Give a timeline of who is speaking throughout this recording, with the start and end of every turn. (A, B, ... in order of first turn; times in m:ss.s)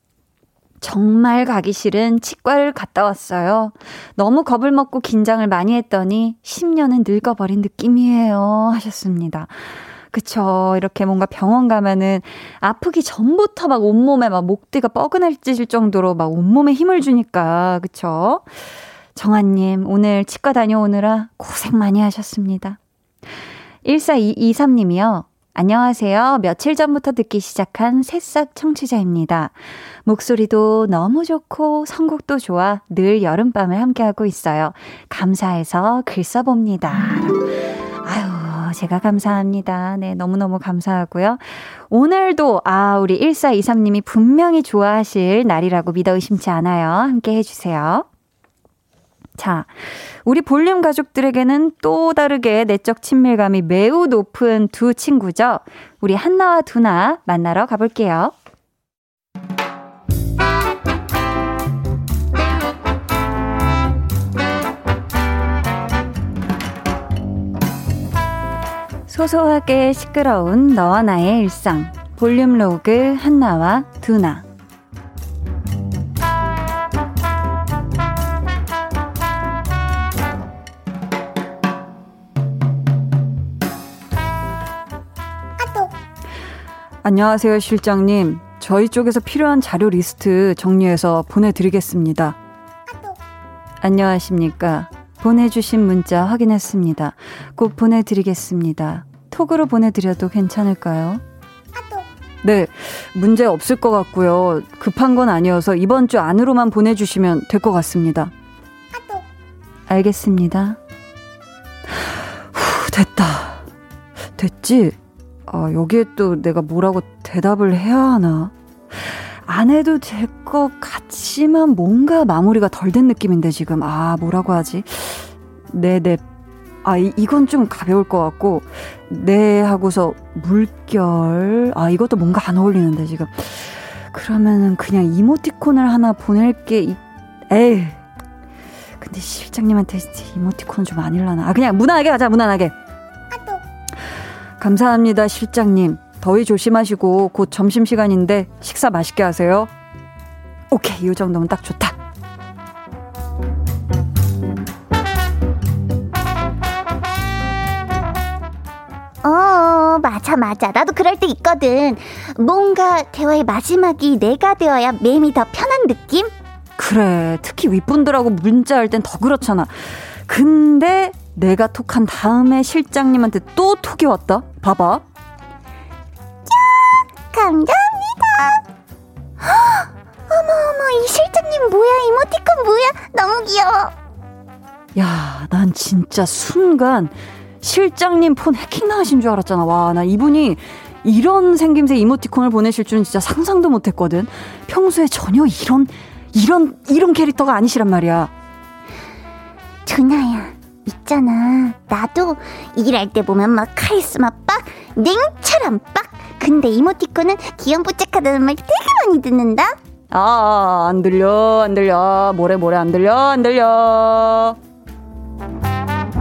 0:00.8-0:18.4 A
0:19.1-0:22.8 A
0:23.8-0:29.5 A
0:30.0-0:48.0 A
0:49.4-0:58.3 A
1:09.1-1:14.4 A
1:25.6-1:25.9 B
1:27.0-1:32.4 A
1:32.9-1:33.2 B
1:33.8-1:41.2 A
1:41.8-1:42.0 B
1:42.4-1:48.3 A
1:48.9-1:49.2 B
1:49.9-1:50.8 A
1:52.0-1:53.6 A
1:54.4-1:55.0 A
1:55.5-2:06.2 A
2:06.8-2:17.0 A
2:17.5-2:18.0 A
2:19.0-2:22.7 A
2:23.3-2:23.6 B
2:24.6-2:29.7 A
2:30.7-2:32.0 A
2:39.2-2:46.3 B
2:46.8-2:55.0 A
2:56.5-2:58.6 B
2:59.4-3:03.9 B
3:05.0-3:18.3 A
3:19.8-3:29.8 B
3:30.1-3:34.6 A